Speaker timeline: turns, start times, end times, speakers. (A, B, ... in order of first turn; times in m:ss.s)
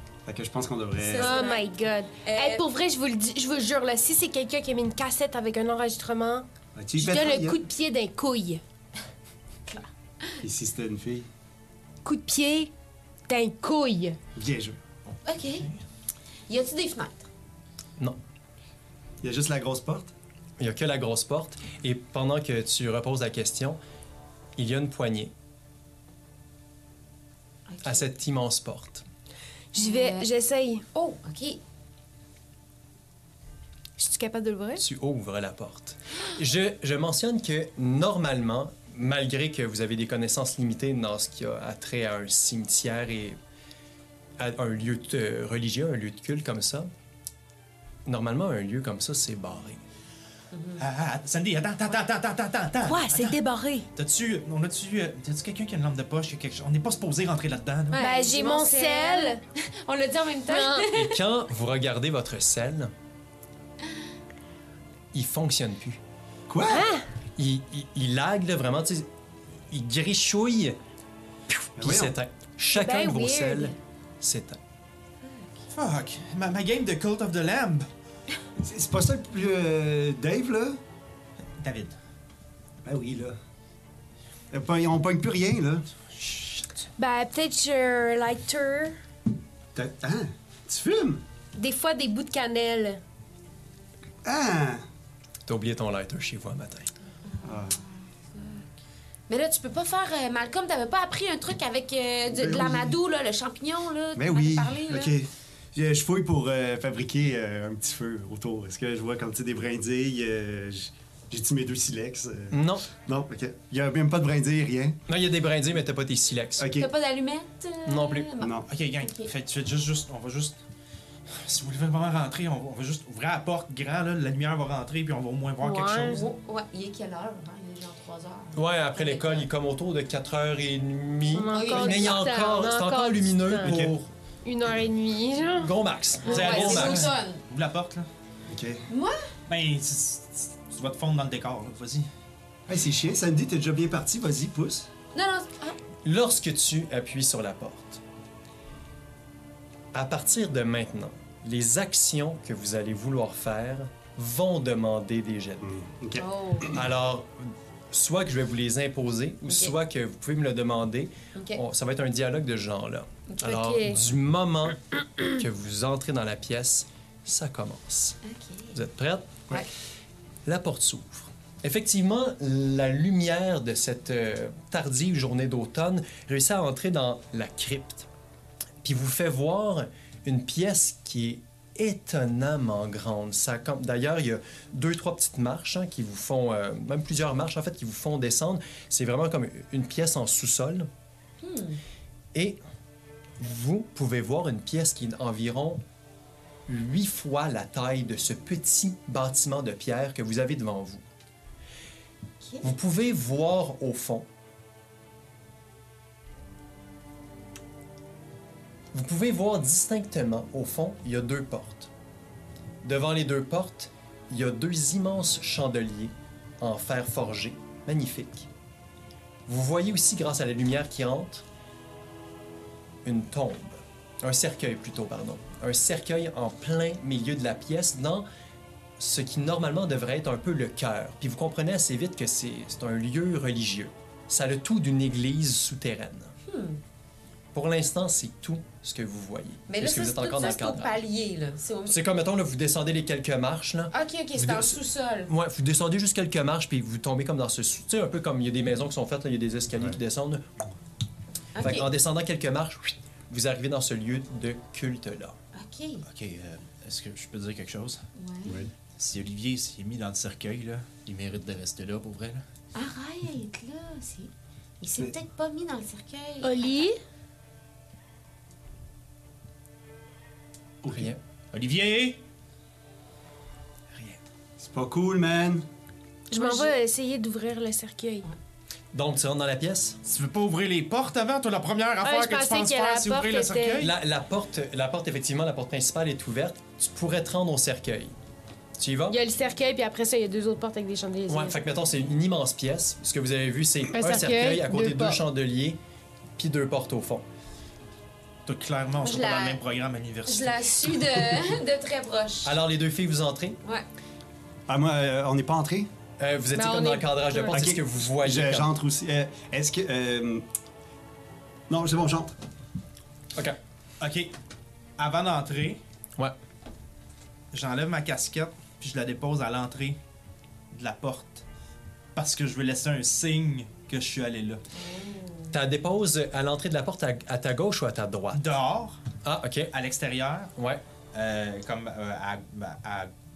0:00.3-0:01.4 A
0:01.0-0:01.7 B
0:01.2-0:06.5 C
0:02.2-0:02.6 B
0:06.8-0:07.6 A
0:07.0-0:08.6 C
0:09.7-0:10.4 B
0:10.4-0:11.3 A
0:12.0-0:12.7 C
0:13.3-0:14.2 C
0:14.4-0:14.8 A
0:15.1-0:15.8 D
0:15.2-0:15.7 B
0:16.5-0:17.3 B
0:19.2-0:20.1 A
0:20.6-0:23.8 E
0:24.6-0:25.3 E
0:27.7-0:28.1 B
0:27.8-0:29.0 E
0:29.7-0:30.8 C
0:29.8-0:30.3 B
0:30.9-0:31.6 B
0:34.0-0:34.8 C
0:34.8-0:43.4 E
0:44.4-0:46.9 E
0:48.1-0:49.8 E
0:50.5-0:50.8 B
0:50.8-0:53.4 D
0:52.8-0:53.9 C
0:54.0-0:58.1 D
0:57.9-1:01.2 B
0:58.0-0:59.4 C
1:00.5-1:00.9 C
1:00.9-1:02.9 E
1:05.1-1:06.0 E
1:06.5-1:06.9 A
1:06.6-1:07.0 C
1:07.4-1:09.1 E
1:09.7-1:10.8 E
1:11.5-1:14.6 E
1:11.8-1:12.1 A
1:12.7-1:13.8 C
1:15.2-1:15.5 B
1:15.7-1:17.9 D
1:18.6-1:20.8 A
1:21.6-1:22.0 D
1:22.8-1:23.4 A
1:24.5-1:25.9 A
1:26.2-1:26.7 D
1:27.0-1:29.0 C
1:29.8-1:31.2 A
1:31.6-1:33.0 C
1:34.2-1:34.8 A
1:35.5-1:36.9 E
1:37.3-1:38.7 B
1:37.4-1:37.8 A
1:39.3-1:45.2 B
1:42.3-1:43.0 A
1:44.2-1:55.0 A
1:52.5-1:52.9 E
1:55.1-1:56.7 E
1:56.6-1:56.9 A
1:56.7-1:59.3 B
1:57.8-1:58.3 E
1:58.4-1:58.7 A
1:58.7-2:00.6 D
2:01.3-2:06.3 D
2:05.6-2:06.2 C
2:06.1-2:09.5 B
2:08.6-2:14.1 E
2:11.3-2:13.8 C
2:11.5-2:12.3 B
2:13.6-2:13.9 A
2:14.4-2:15.7 C
2:15.6-2:17.2 E
2:16.2-2:17.4 B
2:16.3-2:18.1 D
2:18.5-2:18.8 A
2:18.9-2:19.2 B
2:19.5-2:22.1 D
2:22.7-2:24.9 A
2:25.1-2:25.8 B
2:26.0-2:28.0 E
2:29.9-2:35.7 E
2:35.6-2:36.3 A
2:36.2-2:36.8 B
2:36.7-2:48.2 E
2:39.5-2:39.7 B
2:41.4-2:41.6 B
2:43.3-2:44.0 B
2:48.2-2:48.8 B
2:48.7-2:49.6 E
2:50.4-2:58.1 E
2:58.8-3:10.9 E
3:11.4-3:11.8 B
3:12.3-3:12.6 E
3:13.4-3:15.8 E
3:16.7-3:21.0 E
3:22.6-3:24.3 E
3:28.9-3:31.9 E
3:32.8-3:38.5 E
3:39.5-3:41.4 E
3:43.0-3:48.2 E
3:49.0-3:56.4 E
3:56.5-3:56.8 B
3:57.5-4:01.0 E
3:59.7-4:02.0 B
4:01.9-4:10.5 E
4:03.9-4:05.3 B
4:11.6-4:11.9 B
4:11.6-4:15.4 E
4:15.5-4:16.0 B
4:16.1-4:18.0 D
4:18.2-4:18.6 B
4:18.4-4:18.7 A
4:19.0-4:22.4 D
4:22.7-4:26.8 B
4:26.4-4:27.0 C
4:30.8-4:31.1 A
4:30.9-4:31.2 E
4:31.5-4:32.2 D
4:34.6-4:35.6 A
4:36.3-4:38.3 C
4:36.4-4:36.7 B
4:38.9-4:40.0 E
4:40.0-4:43.9 D
4:42.0-4:43.9 C
4:43.8-4:48.1 E
4:48.8-4:49.2 E
4:49.1-4:51.6 C
4:51.3-4:55.8 E
4:53.9-4:55.2 C
4:56.4-4:57.2 E
4:58.5-5:01.4 D
4:59.0-4:59.6 B
5:00.3-5:02.5 B
5:02.4-5:03.6 E
5:04.7-5:05.9 A
5:06.2-5:08.7 E
5:06.5-5:07.6 C
5:07.5-5:10.4 A
5:11.7-5:12.3 A
5:14.0-5:14.3 D
5:15.0-5:15.8 D
5:17.5-5:20.0 D
5:20.7-5:21.4 D
5:22.2-5:24.6 D
5:24.8-5:25.5 B
5:25.5-5:28.4 E
5:28.3-5:29.0 D
5:29.2-5:29.7 E
5:29.7-5:30.5 D
5:30.6-5:30.8 E
5:31.1-5:33.1 D